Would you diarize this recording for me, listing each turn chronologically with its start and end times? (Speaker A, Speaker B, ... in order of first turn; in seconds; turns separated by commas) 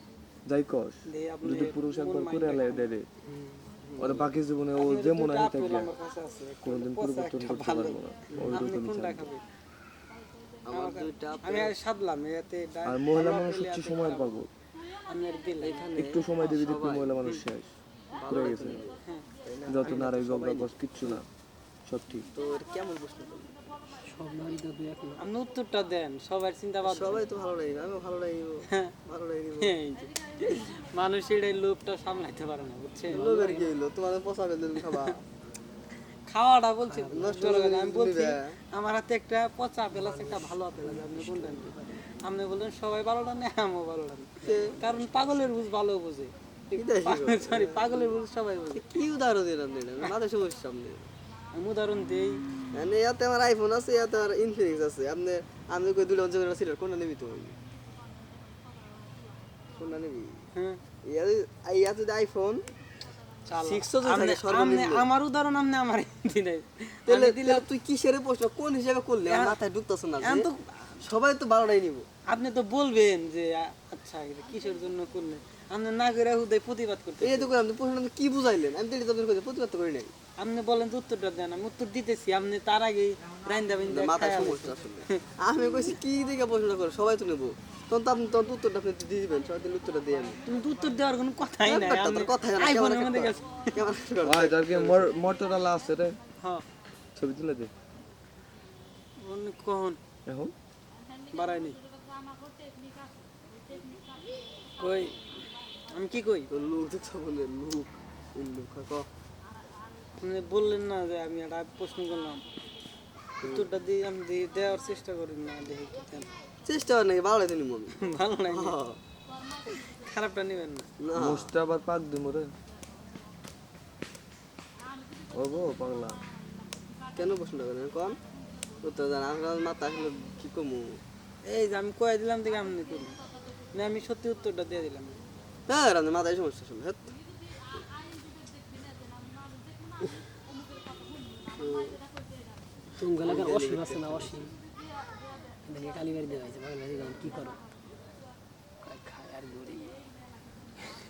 Speaker A: 0.5-3.1, Speaker B: 1.1-2.9, Speaker C: 3.8-4.3, Speaker A: 4.0-5.9, Speaker B: 4.7-9.4, Speaker A: 6.6-9.3, Speaker C: 8.3-8.6, Speaker C: 10.6-11.7, Speaker B: 10.7-14.4, Speaker A: 12.8-14.5, Speaker B: 15.1-15.8, Speaker C: 15.6-17.2, Speaker A: 15.9-18.8, Speaker C: 18.1-21.2, Speaker B: 19.0-19.3, Speaker A: 19.7-21.3, Speaker A: 21.9-22.3, Speaker C: 22.3-23.5, Speaker D: 24.0-25.2, Speaker B: 25.2-27.2, Speaker C: 26.8-29.7, Speaker B: 28.7-28.9, Speaker B: 29.6-33.3, Speaker C: 33.1-35.2, Speaker D: 33.1-33.7, Speaker B: 34.8-35.1, Speaker B: 36.2-48.8, Speaker D: 36.8-37.4, Speaker C: 37.1-38.6, Speaker D: 39.9-42.0, Speaker C: 44.4-44.8, Speaker C: 46.7-48.1, Speaker C: 48.7-51.1, Speaker B: 51.5-52.4, Speaker C: 52.7-57.5, Speaker C: 59.7-60.4, Speaker B: 60.5-60.8, Speaker C: 61.0-62.6, Speaker B: 63.5-67.7, Speaker C: 63.6-65.0, Speaker C: 67.0-70.5, Speaker B: 69.3-69.6, Speaker B: 70.2-71.0, Speaker C: 71.0-72.1, Speaker B: 72.3-77.5, Speaker C: 77.2-80.1, Speaker B: 80.4-85.2, Speaker C: 83.9-90.4, Speaker B: 90.4-93.8, Speaker C: 91.6-95.0, Speaker A: 94.2-96.2, Speaker A: 97.1-97.7, Speaker B: 99.2-100.0, Speaker A: 100.2-100.5, Speaker B: 101.3-101.8, Speaker B: 104.8-105.3, Speaker B: 105.9-106.5, Speaker C: 106.5-109.1, Speaker B: 110.2-112.4, Speaker B: 113.4-116.3, Speaker C: 116.6-118.0, Speaker B: 117.9-118.8, Speaker C: 118.5-119.0, Speaker B: 119.7-120.9, Speaker C: 121.0-121.5, Speaker A: 121.1-122.5, Speaker A: 125.3-126.2, Speaker C: 127.1-128.2, Speaker C: 128.8-131.0, Speaker B: 131.4-133.2, Speaker B: 133.7-135.2, Speaker C: 135.7-137.1, Speaker C: 141.6-142.0, Speaker D: 143.0-144.6, Speaker C: 143.2-144.4, Speaker D: 145.6-147.6, Speaker D: 148.8-150.0